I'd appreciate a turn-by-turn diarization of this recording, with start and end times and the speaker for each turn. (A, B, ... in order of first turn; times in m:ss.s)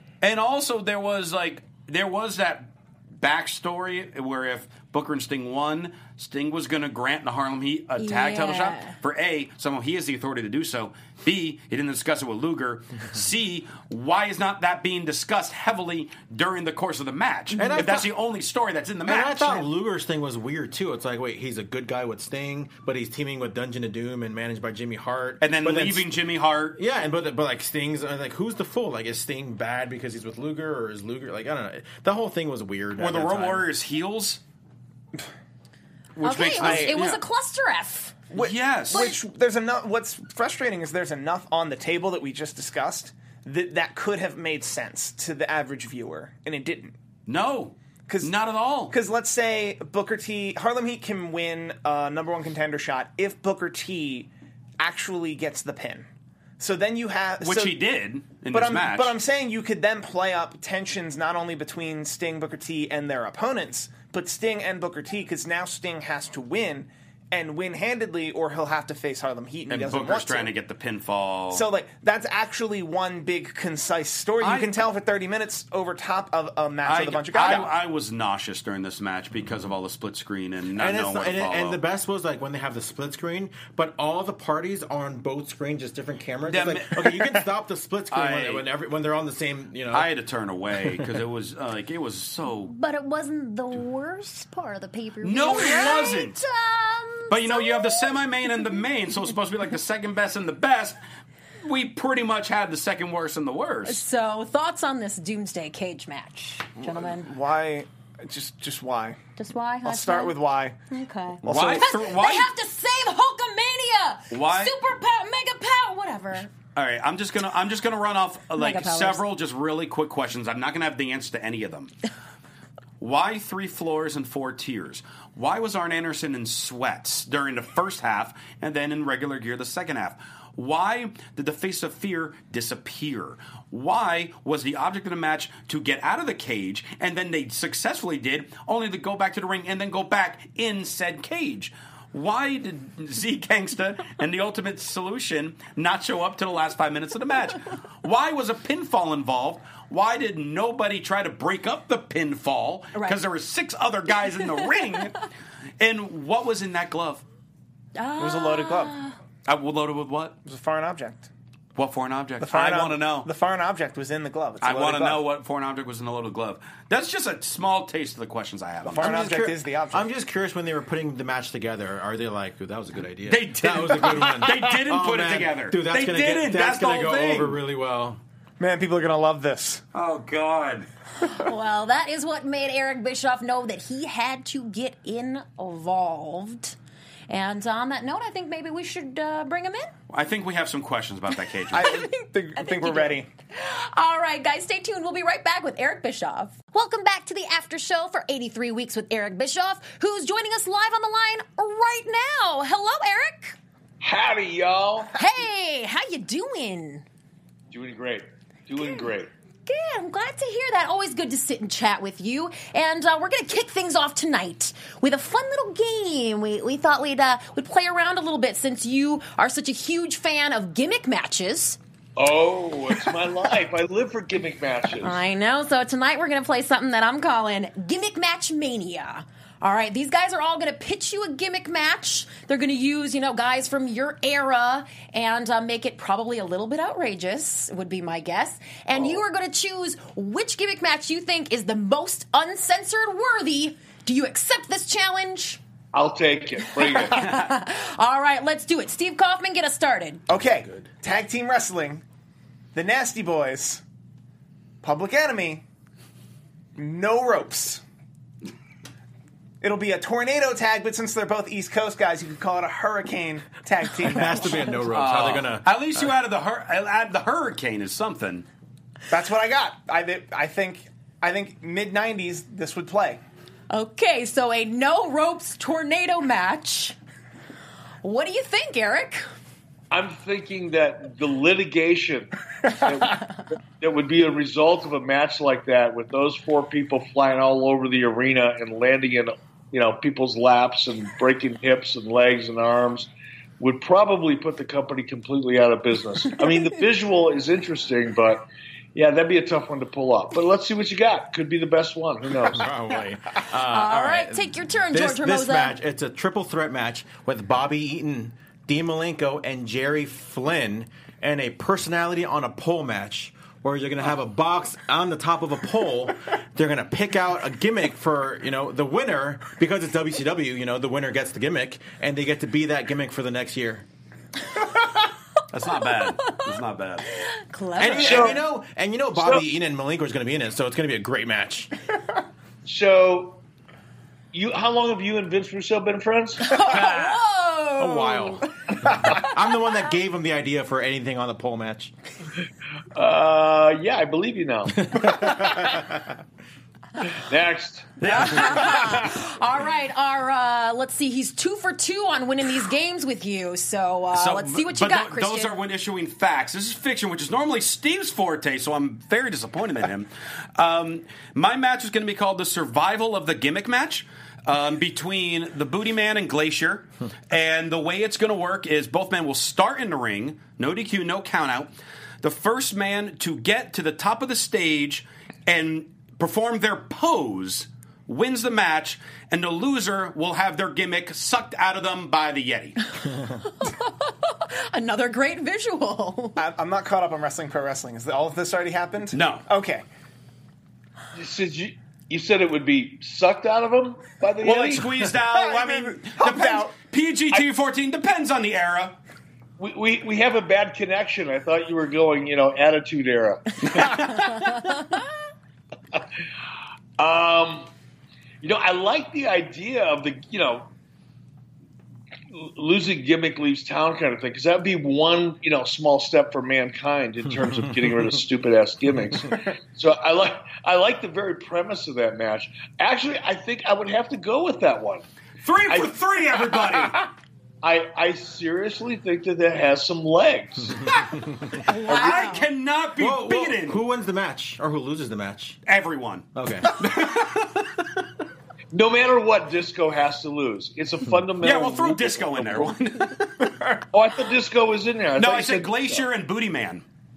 0:00.2-0:19.7 A
0:08.0-0:08.9 B
0:17.5-0:17.8 B
0:17.6-0:18.1 C
0:19.0-0:26.1 C
0:25.4-0:26.8 A
0:26.7-0:33.7 C
0:33.0-0:34.4 A
0:36.2-0:37.2 A
0:36.2-0:37.0 D
0:36.2-0:38.3 B
0:38.3-0:47.0 D
0:38.4-0:39.2 A
0:38.9-0:39.2 B
0:47.3-0:48.9 A
0:48.1-0:48.3 D
0:48.9-0:56.1 D
0:56.6-0:57.8 D
0:57.4-0:59.2 A
0:58.5-1:10.5 D
1:09.7-1:11.7 A
1:11.5-1:17.7 D
1:14.4-1:14.8 A
1:16.8-1:21.8 A
1:20.8-1:30.1 C
1:26.5-1:27.3 A
1:28.1-1:28.7 A
1:29.9-1:32.7 A
1:32.7-1:38.2 B
1:35.2-1:36.4 A
1:37.3-1:41.0 A
1:41.6-1:44.0 A
1:43.9-1:47.3 B
1:46.8-1:49.2 D
1:49.4-1:50.4 B
1:49.8-1:50.8 D
1:50.9-1:56.5 B
1:51.4-1:52.0 D
1:51.4-1:52.5 A
1:54.3-1:54.8 A
1:56.8-2:02.0 A
1:58.6-1:59.2 B
2:03.0-2:35.2 A
2:32.9-2:33.2 B
2:35.8-2:37.2 A
2:38.0-2:39.2 B
2:38.2-2:39.0 D
2:39.5-2:40.4 A
2:40.4-2:41.3 D
2:41.8-2:43.3 A
2:42.4-2:45.2 D
2:44.6-2:49.3 A
2:48.9-2:50.1 D
2:48.9-2:58.2 C
2:53.3-2:57.6 A
2:58.6-2:59.8 D
2:59.9-3:00.9 A
3:01.2-3:06.8 B
3:07.3-3:09.9 B
3:10.1-3:12.0 A
3:11.7-3:23.6 B
3:11.7-3:13.3 D
3:24.0-3:25.1 E
3:25.2-3:27.0 B
3:27.7-3:29.3 E
3:29.7-3:41.8 B
3:42.2-3:45.2 E
3:45.0-4:05.6 B
3:58.9-3:59.2 E
4:05.9-4:07.3 E
4:06.7-4:10.2 B
4:10.3-4:12.0 D
4:12.7-4:13.8 D
4:14.8-4:15.6 D
4:16.8-4:17.8 D
4:19.6-4:24.8 D
4:24.0-4:26.1 C
4:24.9-4:28.5 A
4:29.1-4:33.2 D
4:33.7-4:37.0 B
4:38.0-4:39.3 B
4:39.9-5:02.7 E
5:02.5-5:23.9 C
5:03.6-5:05.8 B
5:25.5-5:27.1 A
5:26.2-5:26.4 B
5:27.0-5:28.4 B
5:27.8-5:31.7 C
5:28.0-5:28.4 E
5:29.2-5:29.4 E
5:32.6-5:33.4 E
5:34.3-5:36.8 E
5:36.4-5:38.5 B
5:37.8-5:41.9 C
5:43.0-5:45.8 E
5:44.9-5:45.8 C
5:47.1-5:48.1 E
5:48.0-5:49.1 A
5:48.0-5:55.5 B
5:54.1-6:11.7 A
6:12.2-6:22.8 A
6:23.4-6:26.4 B
6:26.4-6:29.8 D
6:29.1-6:29.4 A
6:31.1-6:34.9 E
6:34.4-6:39.0 A
6:35.1-6:36.7 D
6:39.6-6:44.0 E
6:43.7-6:44.6 A
6:47.0-6:47.7 E
6:48.4-6:50.7 E
6:52.3-7:05.0 E
7:05.4-7:07.1 A
7:05.7-7:06.0 E
7:07.6-7:11.0 E
7:11.6-7:12.5 B
7:11.7-7:13.8 A
7:11.9-7:12.3 E
7:13.0-7:15.6 C
7:15.7-7:17.8 A
7:16.4-7:16.7 C
7:18.7-7:22.7 E
7:21.4-7:23.7 A
7:23.9-7:26.1 E
7:25.2-7:26.8 A